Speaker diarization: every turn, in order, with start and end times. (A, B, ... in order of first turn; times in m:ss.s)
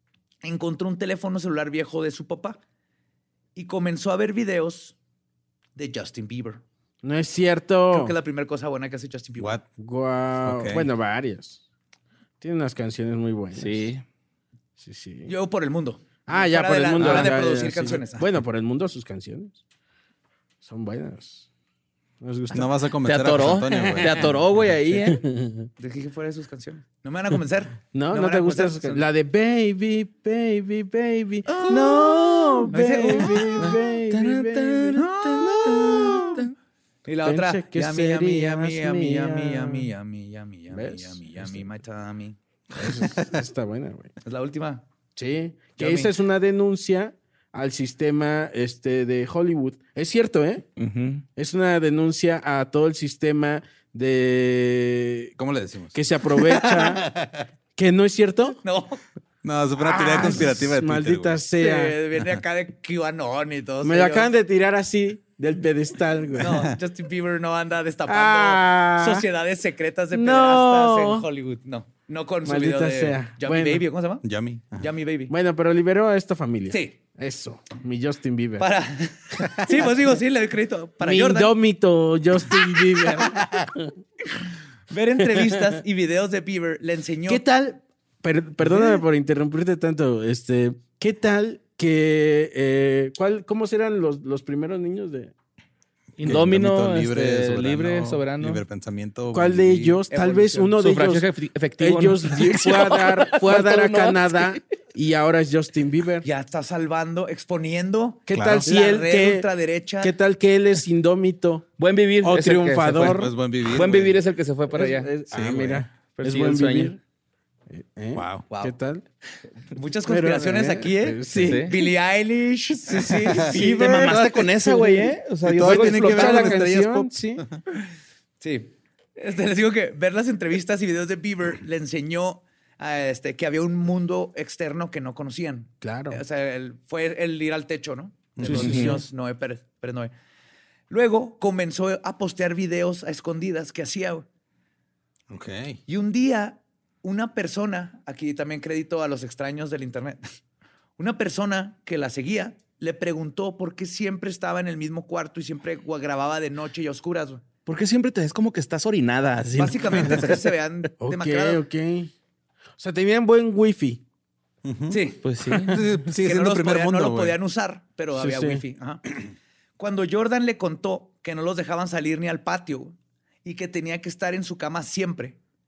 0:00.4-0:02.6 A
0:03.6-0:05.0 A
0:05.8-0:06.6 A
0:07.0-0:08.2 B
0:07.9-0:09.6 A
0:09.4-0:09.6 C
0:09.8-0:11.6 B
0:10.4-0:10.9 C
0:12.4-0:13.9 B
0:13.6-0:14.0 D
0:14.8-0:15.3 B
0:15.3-0:18.3 A
0:16.3-0:19.6 B
0:17.0-0:17.4 D
0:20.6-0:21.5 B
0:22.2-0:22.9 B
0:22.5-0:24.4 C
0:23.0-0:25.2 D
0:24.0-0:24.3 B
0:25.0-0:25.7 B
0:25.8-0:29.0 A
0:27.9-0:35.0 B
0:31.5-0:36.5 D
0:32.7-0:33.8 A
0:35.0-0:36.4 A
0:37.0-0:42.4 A
0:37.2-0:39.9 B
0:40.7-0:41.7 B
0:42.8-0:44.1 B
0:44.2-0:44.8 A
0:45.2-0:50.7 B
0:45.8-0:46.1 A
0:50.8-0:51.2 D
0:51.4-0:55.3 B
0:55.4-0:57.4 C
0:55.9-0:57.1 B
0:57.8-0:58.6 B
0:58.6-0:59.0 A
0:59.4-1:01.4 C
0:59.8-1:02.0 B
0:59.9-1:00.5 A
1:01.6-1:04.3 A
1:03.8-1:06.7 B
1:06.4-1:15.3 A
1:08.1-1:09.2 B
1:10.1-1:11.3 B
1:12.4-1:13.9 B
1:14.2-1:14.9 C
1:15.3-1:18.7 B
1:16.7-1:17.0 A
1:18.6-1:21.5 A
1:21.0-1:23.9 B
1:22.9-1:23.4 A
1:24.9-1:27.4 A
1:25.4-1:25.8 B
1:27.3-1:35.3 B
1:28.6-1:29.0 A
1:36.2-1:40.0 C
1:36.2-1:38.6 D
1:39.3-1:41.3 B
1:40.1-1:40.7 A
1:40.8-1:44.6 D
1:41.8-1:46.3 B
1:46.2-1:50.1 A
1:48.3-1:49.5 B
1:48.3-1:48.7 C
1:50.0-1:51.7 B
1:51.8-1:55.1 D
1:52.2-1:53.3 B
1:53.0-1:54.2 C
1:54.7-1:57.0 B
1:55.3-1:55.8 C
1:56.2-1:57.0 D
1:57.7-1:59.0 B
1:58.1-1:58.5 C
1:58.5-1:58.7 A
1:59.7-2:04.8 A
2:00.1-2:01.9 B
2:01.4-2:01.8 D
2:02.9-2:07.4 B
2:03.3-2:06.7 D
2:05.4-2:07.6 C
2:08.4-2:20.1 A
2:15.8-2:16.2 B
2:18.4-2:18.8 C
2:18.4-2:19.0 B
2:18.6-2:19.0 D
2:20.9-2:24.3 A
2:25.3-2:25.8 C
2:25.9-2:30.2 A
2:31.0-2:37.4 A
2:37.7-2:40.5 D
2:39.6-2:41.6 A
2:41.0-2:42.1 B
2:42.8-2:44.0 B
2:44.6-2:47.4 C
2:44.9-2:45.2 A
2:45.2-2:45.8 D
2:46.2-2:49.2 A
2:48.1-2:48.6 B
2:49.8-2:55.4 A